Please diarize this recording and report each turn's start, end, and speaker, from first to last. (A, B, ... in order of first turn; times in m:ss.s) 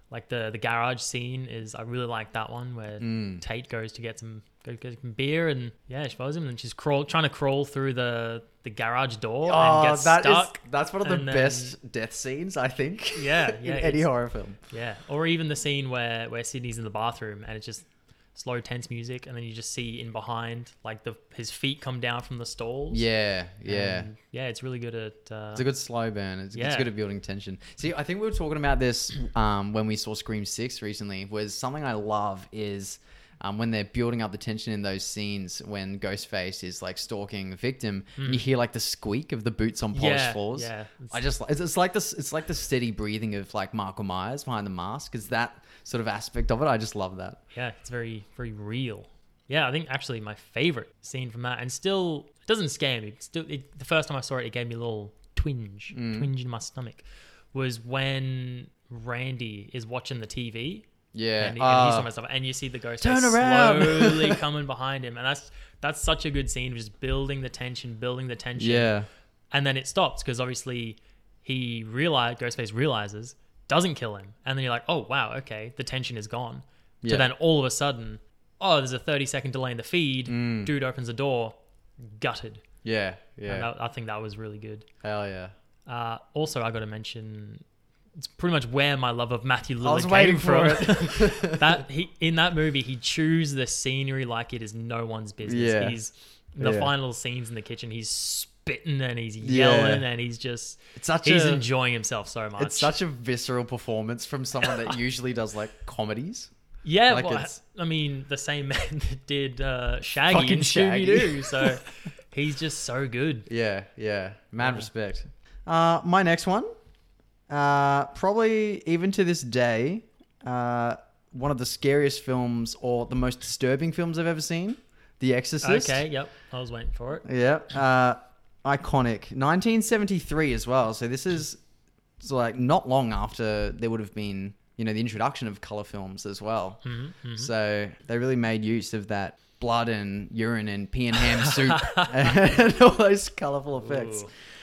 0:00.1-0:11.8 A
0:03.0-0:03.4 B
0:09.4-0:14.6 B
0:13.2-0:14.1 A
0:14.7-0:23.1 A
0:22.9-0:24.1 B
0:23.7-0:25.7 A
0:25.6-0:47.4 B
0:26.5-0:26.9 A
0:38.2-0:38.4 A
0:39.9-0:41.2 A
0:47.5-1:00.9 A
0:55.9-0:56.3 B
1:01.1-1:02.1 B
1:01.4-1:08.9 A
1:03.0-1:04.4 B
1:08.6-1:09.1 B
1:09.5-1:22.6 A
1:17.0-1:17.3 B
1:20.3-1:20.7 B
1:22.8-1:23.7 B
1:23.5-1:24.9 A
1:25.0-1:25.5 B
1:25.9-1:27.6 A
1:28.2-1:43.0 A
1:29.8-1:31.8 B
1:35.5-1:36.0 B
1:36.6-1:36.9 B
1:39.4-1:40.0 B
1:41.0-1:41.6 B
1:42.6-1:46.5 B
1:46.8-1:53.5 A
1:47.1-1:47.6 B
1:50.3-1:51.8 B
1:53.5-1:56.7 B
1:54.6-1:54.9 A
1:57.5-2:06.0 B
2:05.6-2:07.3 A
2:07.2-2:11.6 B
2:12.2-2:16.8 B
2:16.8-2:17.5 A
2:17.4-2:24.3 B
2:21.4-2:22.3 A
2:23.8-2:24.3 A